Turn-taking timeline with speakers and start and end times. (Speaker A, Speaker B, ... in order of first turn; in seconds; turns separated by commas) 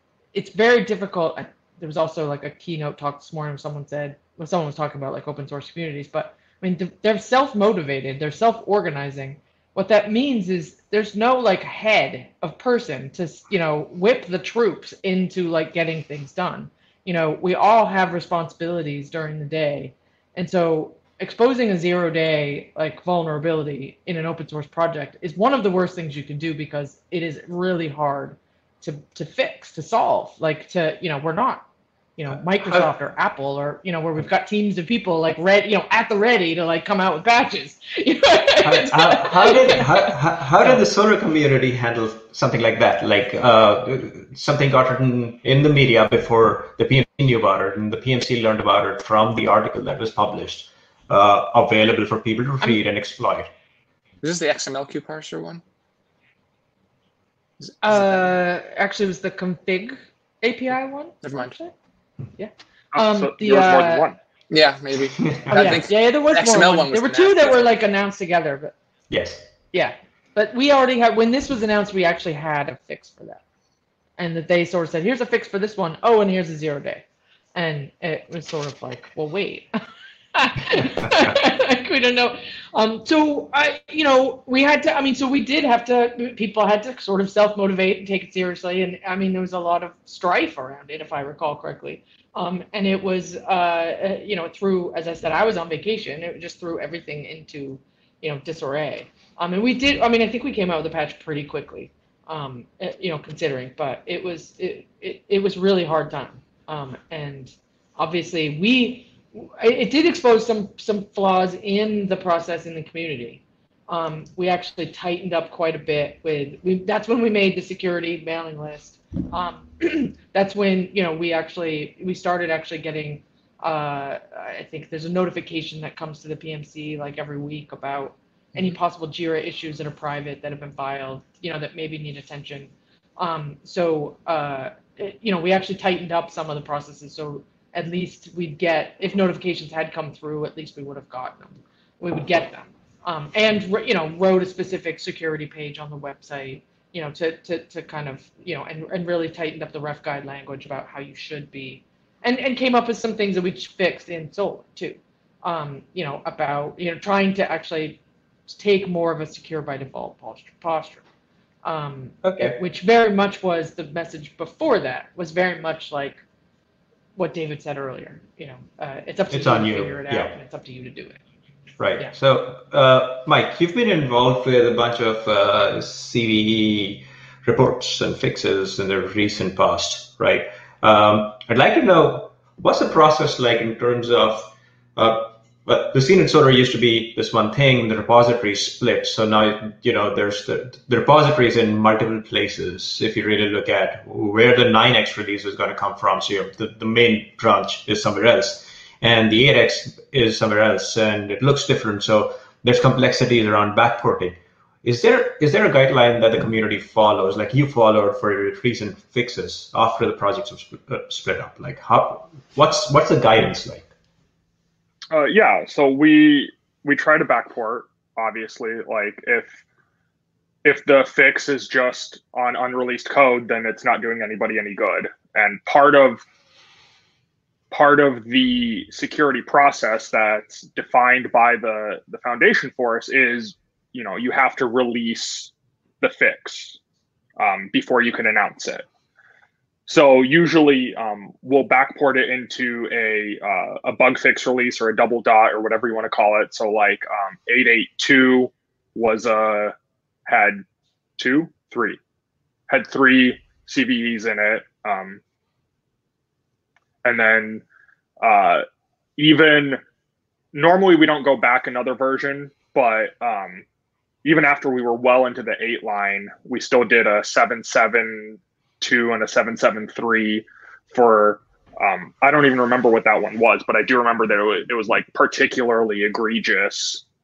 Speaker A: 0.3-31.6, Speaker A: 32.2-40.1, Speaker B: 32.6-32.9, Speaker B: 38.6-53.5, Speaker C: 54.2-55.6, Speaker C: 57.7-58.2, Speaker A: 57.8-61.7, Speaker C: 61.2-61.5, Speaker A: 62.4-64.1, Speaker D: 62.9-64.2, Speaker C: 64.5-67.7, Speaker B: 65.3-65.7, Speaker A: 65.5-68.7, Speaker B: 69.1-69.5, Speaker A: 69.7-73.4, Speaker A: 74.2-77.0, Speaker A: 77.5-79.7, Speaker A: 80.3-161.0, Speaker A: 161.6-166.2, Speaker B: 162.2-162.6, Speaker A: 167.2-171.2, Speaker B: 169.3-170.3, Speaker B: 171.8-213.8, Speaker D: 215.1-219.6, Speaker D: 220.6-226.2, Speaker D: 227.7-236.8, Speaker D: 237.4-238.8, Speaker D: 239.9-249.7, Speaker D: 250.2-250.6, Speaker D: 251.2-252.0, Speaker D: 252.7-255.2, Speaker D: 257.0-257.6, Speaker D: 258.2-258.6, Speaker D: 259.2-259.8, Speaker D: 260.5-263.6, Speaker D: 264.2-277.0